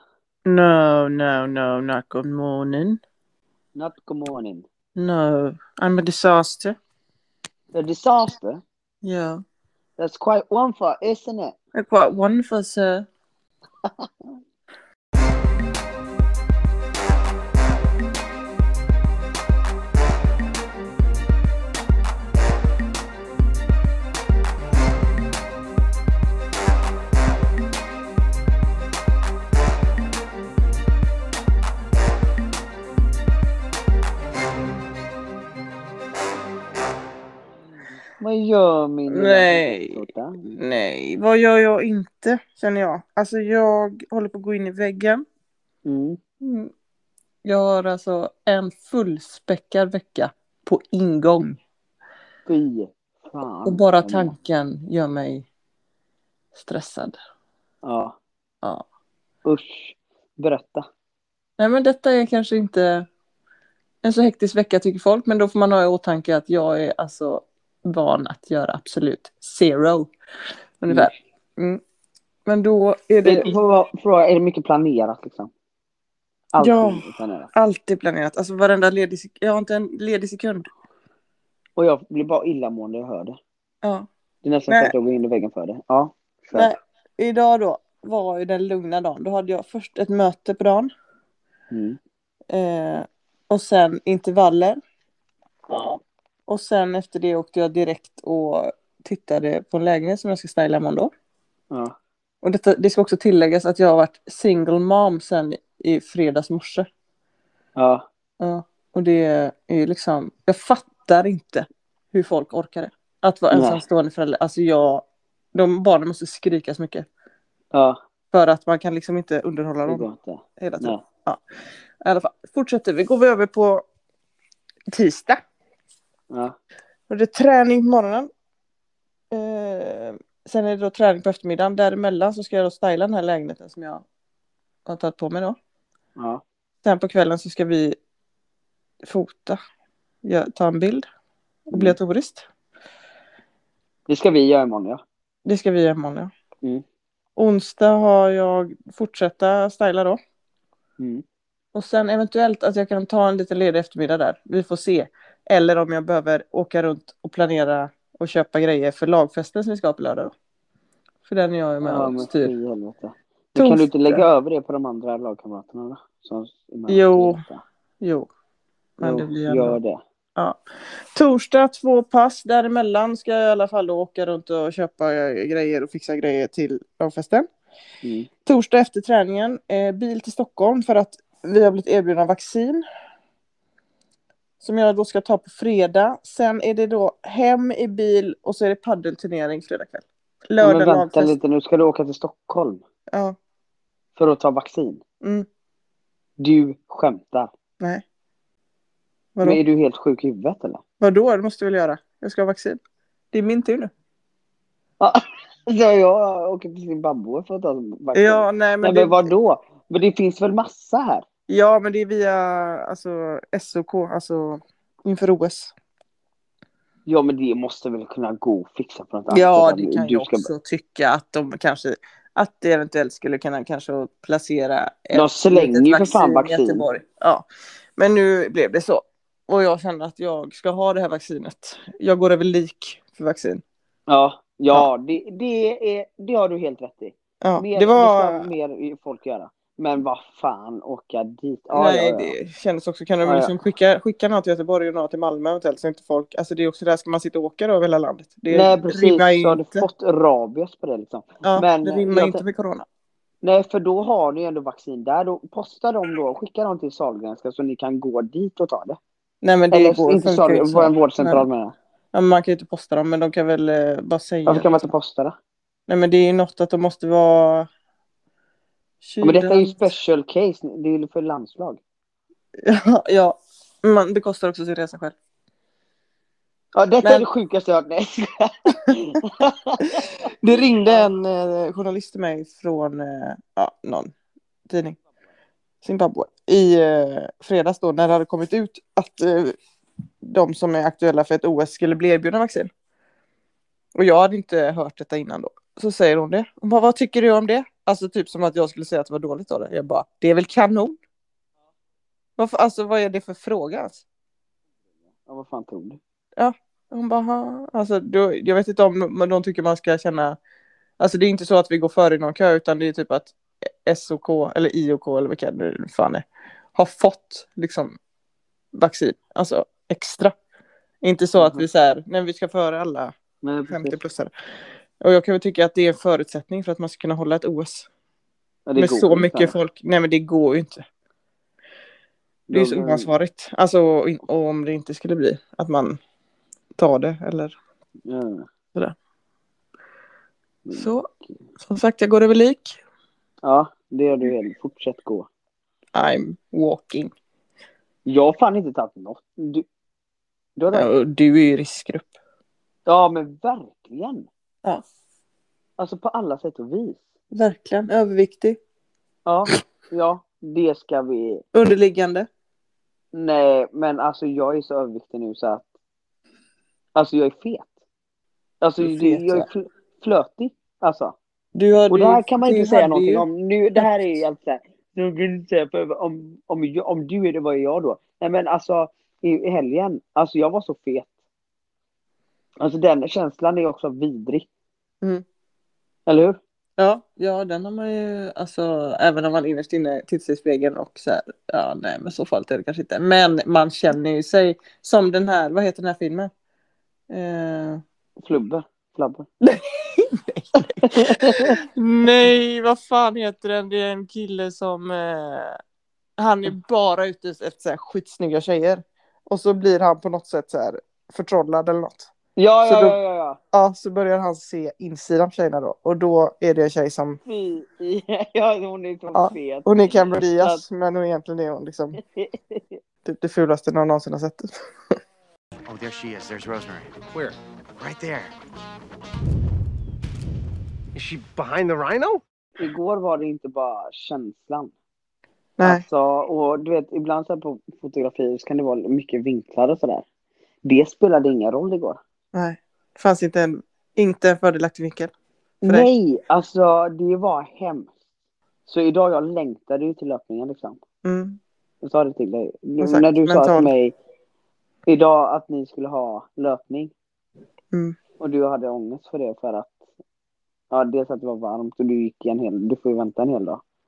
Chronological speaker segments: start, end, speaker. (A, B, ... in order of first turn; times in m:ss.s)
0:00.5-0:03.0 A
0:03.8-0:04.6 B
0:05.0-0:06.8 A
0:07.7-0:08.6 B
0:09.0-0:09.4 A
0:10.0-0:11.6 B
0:11.8-0:13.1 A
0:38.2-0:40.4 B
0:39.1-0:45.2 A
0:45.8-0:46.2 B
0:46.4-0:46.7 A
0:47.4-0:51.6 A
0:52.5-0:54.3 B
0:53.6-0:55.5 A
0:56.6-0:57.2 A
0:57.8-0:58.2 B
0:59.4-1:00.9 B
1:01.6-1:03.1 A
1:04.0-1:10.1 A
1:10.8-1:11.8 A
1:12.5-1:13.5 A
1:13.2-1:15.5 B
1:16.5-1:17.5 B
1:16.6-1:20.7 A
1:21.8-1:23.4 B
1:24.4-1:26.7 B
1:24.7-1:24.9 A
1:26.5-1:30.9 A
1:31.7-1:32.0 B
1:32.5-1:34.8 A
1:35.7-1:36.0 B
1:36.5-1:41.1 A
1:42.4-1:46.9 A
1:47.8-1:48.1 B
1:48.4-1:57.1 A
1:53.5-1:53.8 B
1:58.3-2:00.1 A
1:59.8-2:01.0 B
2:00.6-2:01.4 A
2:02.0-2:03.8 A
2:04.9-2:05.4 A
2:06.3-2:06.6 B
2:07.1-2:08.3 A
2:09.3-2:14.0 A
2:14.9-2:15.6 A
2:16.2-2:16.4 B
2:16.8-2:18.0 A
2:19.0-2:19.6 A
2:20.2-2:21.0 A
2:21.7-2:22.5 A
2:24.1-2:25.0 B
2:25.4-2:26.3 A
2:27.4-2:30.2 A
2:31.0-2:31.2 B
2:31.7-2:40.3 A
2:41.3-2:42.5 A
2:41.8-2:47.6 B
2:43.6-2:44.2 A
2:46.9-2:47.4 A
2:48.0-2:48.3 A
2:49.0-2:49.8 A
2:49.0-2:50.0 B
2:51.1-2:57.5 A
2:58.0-2:58.3 B
2:58.5-3:02.8 A
3:04.6-3:11.3 A
3:10.6-3:12.8 B
3:13.1-3:13.4 A
3:14.2-3:15.0 B
3:15.2-3:15.5 A
3:16.4-3:17.5 B
3:19.4-3:20.8 B
3:21.0-3:22.8 A
3:23.3-3:23.9 A
3:25.0-3:31.2 B
3:28.1-3:29.3 A
3:31.5-3:35.7 A
3:37.1-3:40.5 B
3:39.3-3:47.4 A
3:45.1-3:46.8 B
3:48.0-3:53.6 A
3:54.1-4:02.4 B
3:57.4-3:58.5 A
4:01.7-4:09.9 A
4:03.2-4:03.5 B
4:08.5-4:12.4 B
4:11.4-4:12.8 A
4:13.4-4:19.0 B
4:19.4-4:21.4 A
4:19.7-4:21.7 B
4:22.1-4:24.9 A
4:24.5-4:25.4 B
4:25.9-4:27.7 A
4:29.0-4:29.8 A
4:29.2-4:31.8 B
4:32.6-4:35.2 A
4:36.8-4:40.1 B
4:40.4-4:44.1 A
4:44.7-4:45.0 A
4:45.8-4:49.6 A
4:50.2-4:52.7 A
4:54.0-5:01.0 A
5:02.4-5:04.0 A
5:05.3-5:06.0 B
5:06.4-5:10.4 A
5:11.0-5:18.0 A
5:18.7-5:20.4 A
5:21.0-5:23.2 A
5:21.4-5:21.7 B
5:23.4-5:24.0 B
5:23.7-5:24.3 A
5:25.0-5:27.9 A
5:28.7-5:29.6 B
5:28.8-5:30.8 A
5:32.5-5:33.1 B
5:32.5-5:36.0 A
5:36.8-5:37.6 A
5:38.1-5:38.5 B
5:40.7-5:41.0 B
5:40.7-5:41.1 A
5:41.6-5:42.8 A
5:43.4-5:45.3 B
5:45.9-5:47.1 A
5:48.1-5:49.6 B
5:50.6-5:50.9 B
5:50.7-5:52.1 A
5:52.9-5:54.3 B
5:55.8-5:57.0 B
5:57.3-5:58.6 A
5:59.3-6:01.4 B
6:01.5-6:02.3 A
6:03.1-6:05.7 B
6:07.0-6:07.7 B
6:08.6-6:11.2 B
6:08.8-6:09.5 A
6:11.6-6:13.3 A
6:11.9-6:21.1 B
6:22.6-6:24.5 B
6:26.1-6:26.4 B
6:26.8-6:36.3 A
6:37.1-6:37.8 A
6:38.2-6:39.3 B
6:40.0-6:45.6 A
6:40.6-6:41.6 B
6:46.2-6:52.1 A
6:52.4-6:53.4 B
6:52.6-6:53.0 A
6:53.5-6:57.2 A
6:57.3-7:00.6 B
6:59.2-7:02.0 A
7:02.0-7:02.8 B
7:03.0-7:05.0 A
7:05.7-7:08.3 C
7:11.0-7:12.2 C
7:12.6-7:14.7 B
7:15.6-7:15.8 A
7:15.6-7:20.1 B
7:20.6-7:22.0 B
7:22.3-7:25.1 A
7:25.6-7:28.0 B
7:28.7-7:30.8 B
7:31.0-7:31.4 A
7:31.8-7:34.0 B
7:32.8-7:33.7 A
7:34.9-7:36.9 B
7:37.7-7:38.0 A
7:38.2-7:39.8 B
7:40.7-7:43.6 B